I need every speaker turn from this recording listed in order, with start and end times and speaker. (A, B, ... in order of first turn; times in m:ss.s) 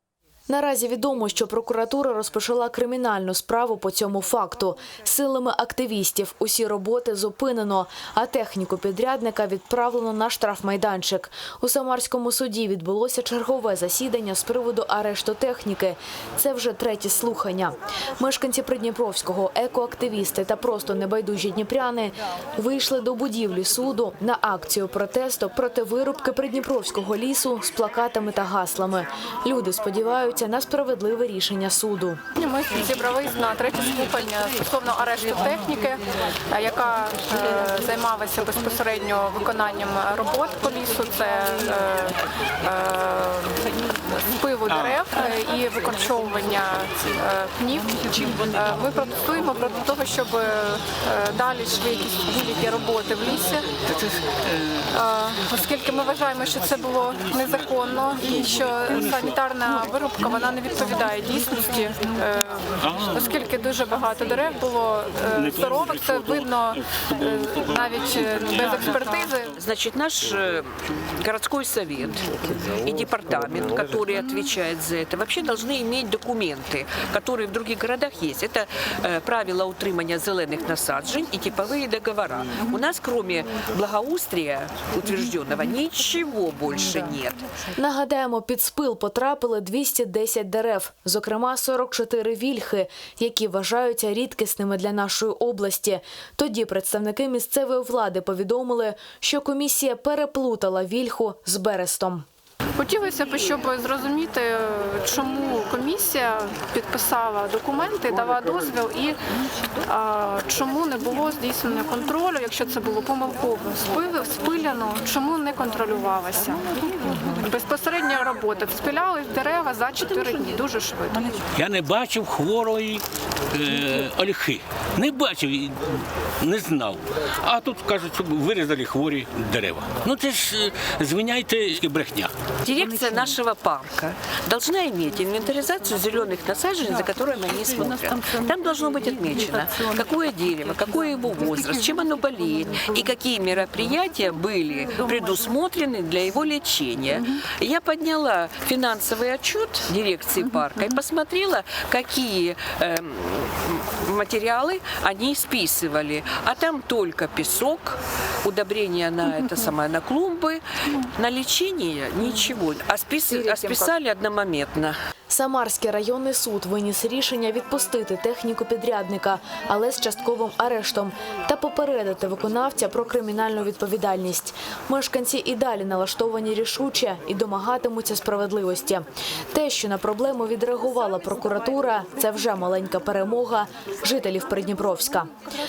0:00.5-0:32.2 A
0:32.4-0:43.7 B
0:44.3-0:53.8 B
0:54.9-1:09.5 B
1:02.8-1:03.1 C
1:09.6-1:27.4 D
1:27.8-1:42.2 A
1:42.8-1:49.2 B
1:49.9-2:01.4 B
2:01.6-2:12.3 C
2:12.6-2:45.0 D
2:45.3-3:05.3 A